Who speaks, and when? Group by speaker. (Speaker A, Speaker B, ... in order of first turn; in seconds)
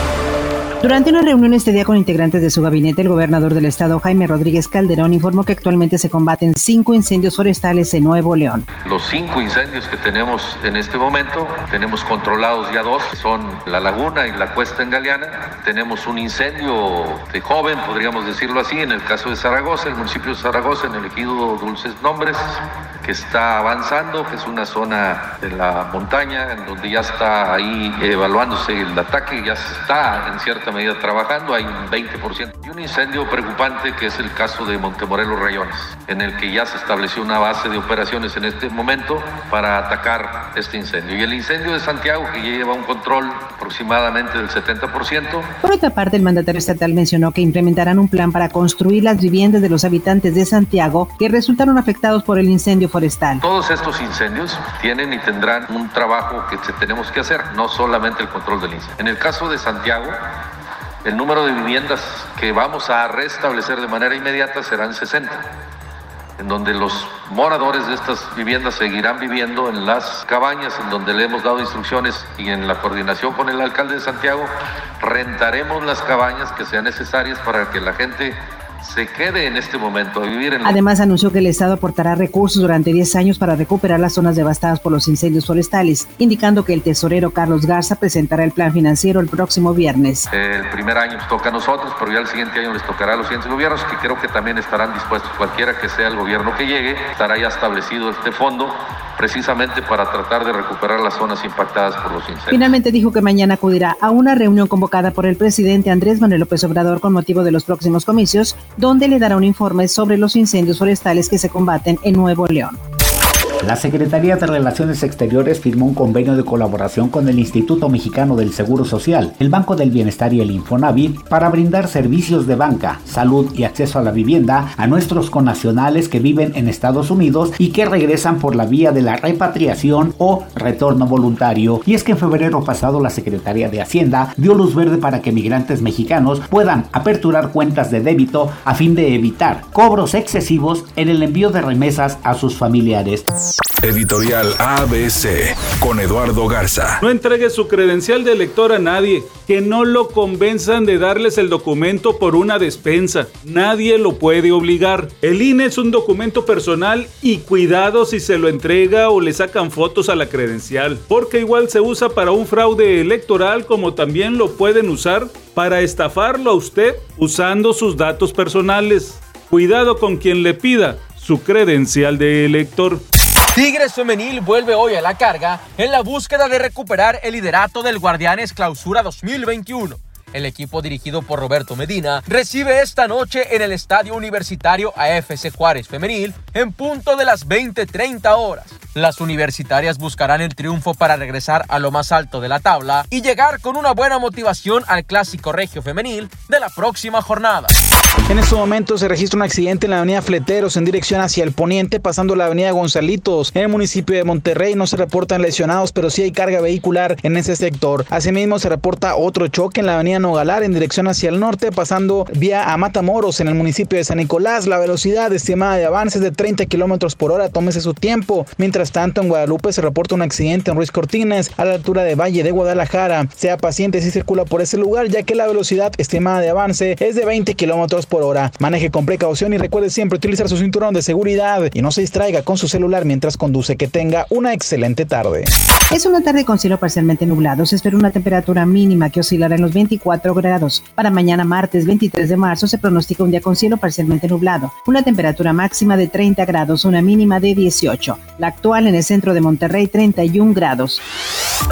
Speaker A: 0.8-8.7, 45.6-53.4, 80.6-90.3, 102.5-112.8, 235.9-251.0
Speaker B: 8.8-45.5, 53.4-60.2, 61.0-65.4, 66.4-80.8, 90.3-102.7
Speaker C: 113.6-143.2
Speaker D: 143.8-147.0
Speaker E: 147.0-173.0
Speaker F: 173.5-197.7
Speaker G: 198.3-235.5